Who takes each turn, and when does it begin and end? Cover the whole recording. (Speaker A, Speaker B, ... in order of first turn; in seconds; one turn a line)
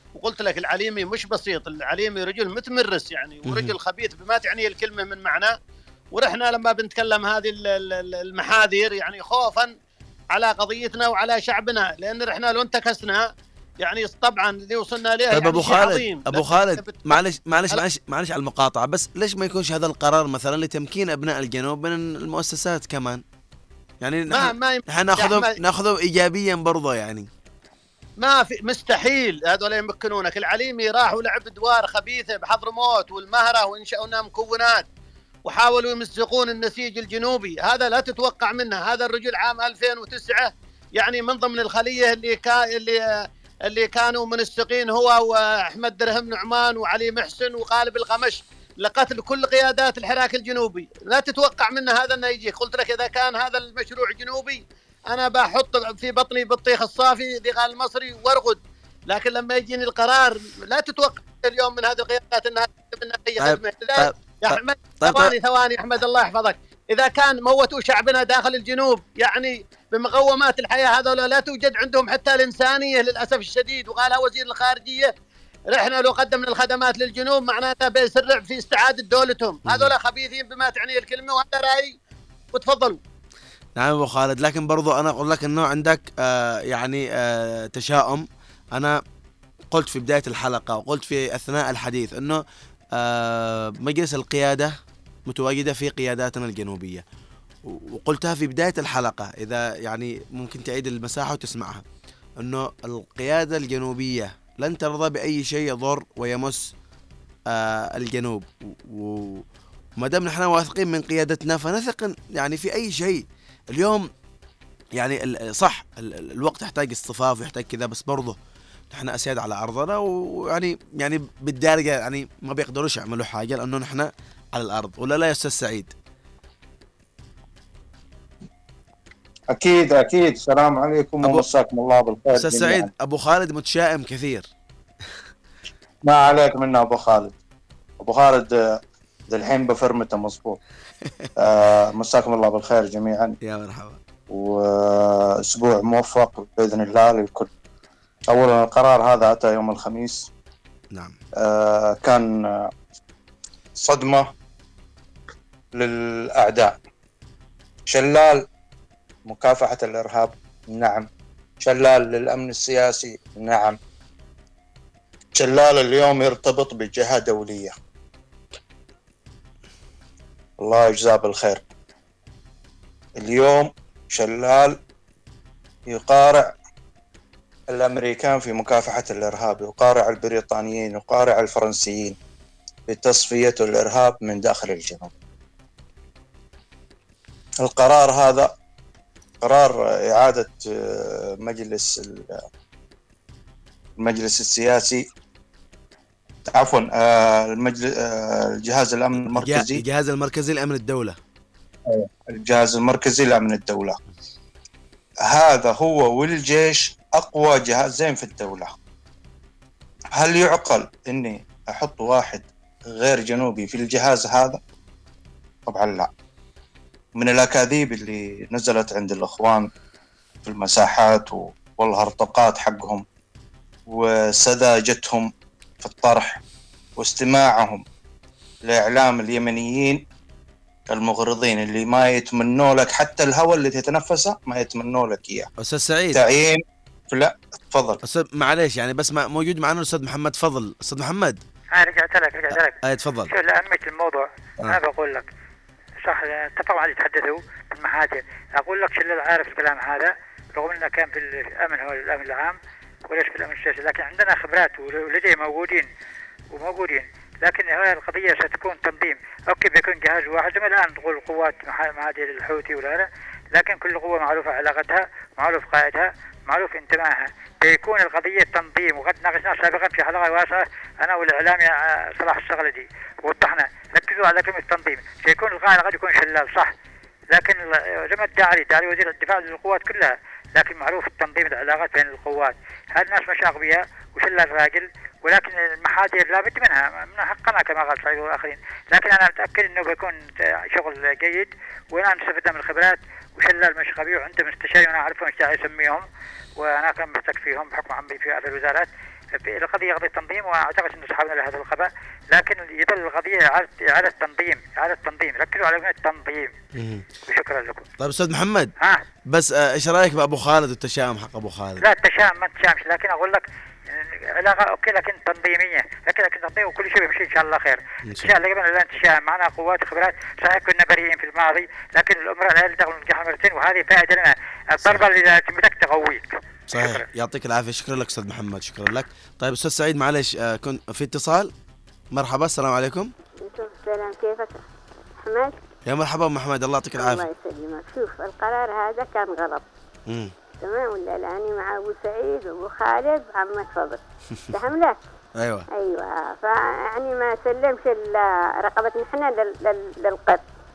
Speaker A: 0.1-5.5
Speaker B: 3.5-3.7
Speaker A: 6.1-9.7
Speaker A: 10.3-13.3
Speaker A: 13.8-17.2
Speaker B: 15.3-23.2
Speaker B: 24.0-27.3
Speaker A: 24.3-25.5
Speaker A: 28.2-34.9
Speaker A: 35.5-75.1
Speaker B: 63.4-65.3
Speaker A: 75.7-81.9
Speaker B: 79.7-79.9
Speaker A: 82.5-83.0
Speaker B: 83.8-89.0
Speaker B: 89.7-92.4
Speaker B: 92.9-94.7
Speaker B: 95.3-97.0
Speaker B: 97.7-101.8
Speaker B: 102.4-106.7
Speaker B: 107.5-109.4
Speaker B: 110.0-114.0
Speaker B: 115.0-118.3
Speaker B: 118.9-125.9
Speaker C: 129.5-132.9
Speaker B: 132.3-134.5
Speaker C: 136.1-137.3
Speaker C: 138.0-138.6
Speaker C: 139.3-140.6
Speaker B: 141.1-141.3
Speaker C: 141.4-143.3
Speaker B: 143.4-144.0
Speaker C: 144.3-147.5
Speaker C: 148.3-150.3
Speaker C: 151.4-152.7
Speaker C: 153.8-154.3
Speaker C: 155.8-156.7
Speaker C: 157.9-158.4
Speaker C: 159.3-161.1
Speaker C: 161.6-163.8
Speaker C: 165.3-167.7
Speaker C: 170.6-171.6
Speaker C: 173.2-174.8
Speaker C: 175.9-176.5
Speaker C: 177.7-182.2
Speaker C: 182.9-185.1
Speaker C: 187.6-188.5
Speaker C: 189.4-192.4
Speaker C: 194.0-195.0
Speaker C: 196.5-199.8
Speaker B: 199.3-201.2
Speaker C: 201.9-204.0
Speaker C: 205.3-208.7
Speaker C: 210.2-214.6
Speaker C: 215.7-216.1
Speaker C: 217.2-219.7
Speaker C: 220.4-223.0
Speaker C: 223.9-225.3
Speaker C: 225.8-226.4
Speaker C: 227.0-227.8
Speaker C: 228.7-230.0
Speaker C: 230.9-235.5
Speaker B: 235.6-236.2
Speaker C: 236.1-238.0
Speaker B: 238.0-241.4
Speaker D: 241.7-242.8
Speaker B: 242.5-243.3
Speaker D: 243.3-245.3
Speaker D: 246.0-252.6
Speaker D: 253.1-255.9
Speaker D: 256.5-276.7
Speaker D: 277.3-296.0
Speaker D: 296.6-306.5
Speaker B: 306.7-307.1
Speaker D: 307.3-307.9
Speaker B: 308.0-308.7
Speaker B: 309.3-311.8
Speaker D: 311.8-327.0
Speaker B: 318.1-318.3
Speaker B: 326.7-331.5
Speaker B: 332.1-333.1
Speaker E: 333.4-334.6
Speaker E: 335.2-335.6
Speaker B: 335.9-337.3
Speaker E: 337.0-339.6
Speaker B: 340.1-340.3
Speaker E: 340.6-345.0
Speaker B: 344.3-344.6
Speaker B: 345.4-345.7
Speaker E: 345.7-350.4